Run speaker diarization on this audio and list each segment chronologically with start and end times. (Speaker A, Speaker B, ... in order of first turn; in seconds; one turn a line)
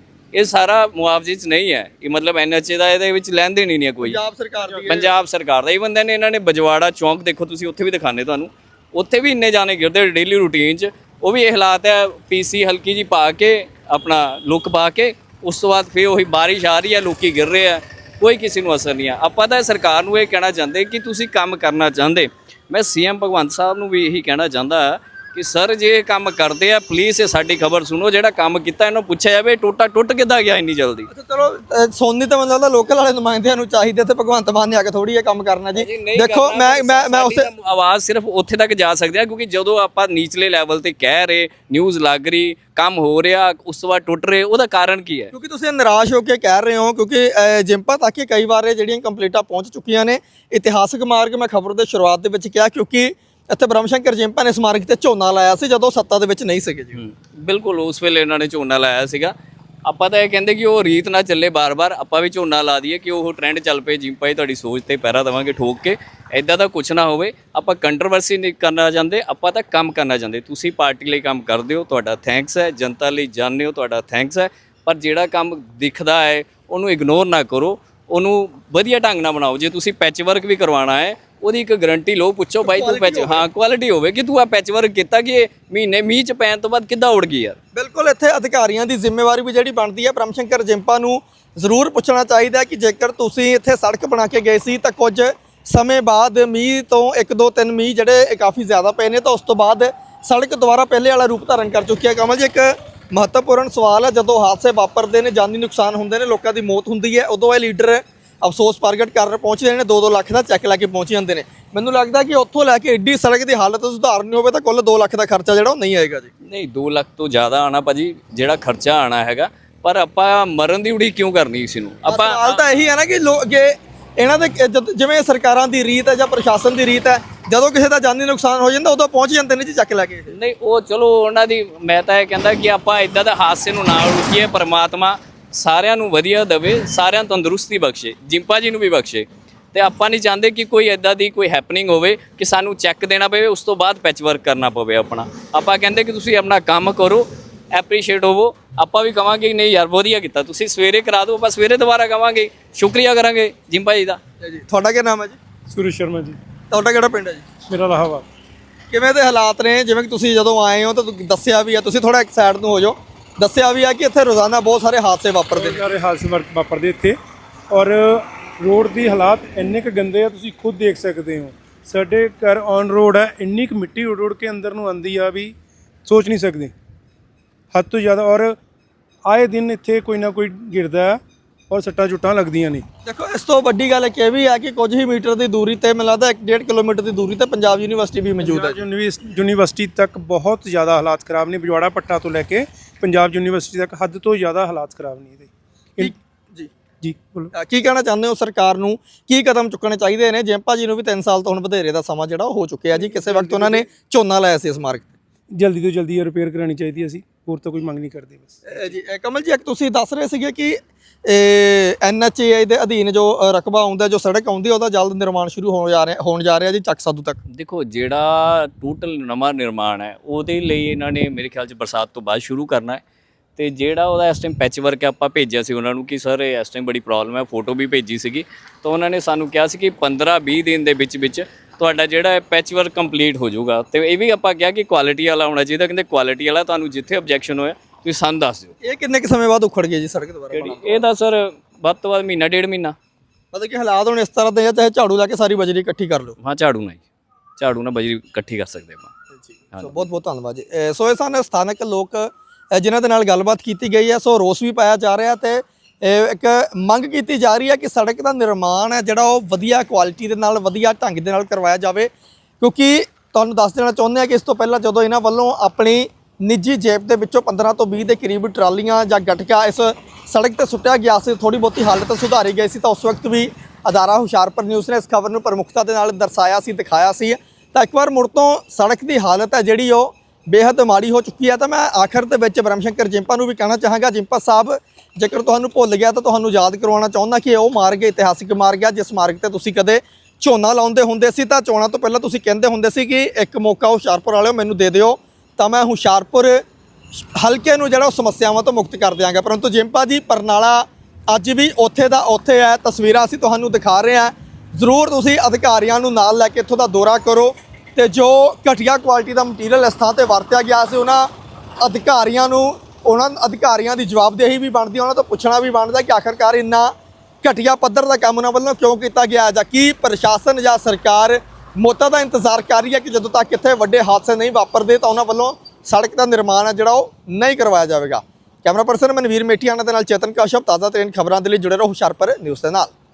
Speaker A: 0.3-4.2
Speaker B: 4.0-5.1
Speaker A: 4.8-31.1
Speaker B: 31.1-37.5
Speaker A: 35.7-45.3
Speaker B: 45.3-57.0
Speaker A: 56.9-59.3
Speaker A: 59.9-87.6
Speaker B: 82.6-83.5
Speaker B: 87.7-116.3
Speaker A: 116.5-122.6
Speaker B: 122.1-130.3
Speaker A: 130.3-154.2
Speaker B: 154.4-155.4
Speaker C: 155.7-156.4
Speaker B: 156.7-157.4
Speaker C: 157.7-158.2
Speaker B: 158.9-165.8
Speaker C: 165.6-167.2
Speaker C: 167.7-175.5
Speaker C: 176.0-176.7
Speaker C: 177.7-178.6
Speaker C: 179.2-181.2
Speaker C: 181.7-182.8
Speaker B: 183.1-188.8
Speaker C: 188.4-196.1
Speaker B: 196.0-196.7
Speaker C: 197.0-197.5
Speaker B: 197.5-205.2
Speaker C: 202.9-203.8
Speaker C: 205.6-208.9
Speaker B: 208.7-217.4
Speaker A: 217.5-223.0
Speaker A: 223.6-238.7
Speaker B: 238.8-241.0
Speaker A: 240.5-242.9
Speaker B: 243.5-246.4
Speaker A: 246.4-247.0
Speaker A: 247.6-249.1
Speaker B: 249.3-296.6
Speaker A: 249.7-250.0
Speaker B: 297.2-311.3
Speaker B: 311.8-332.9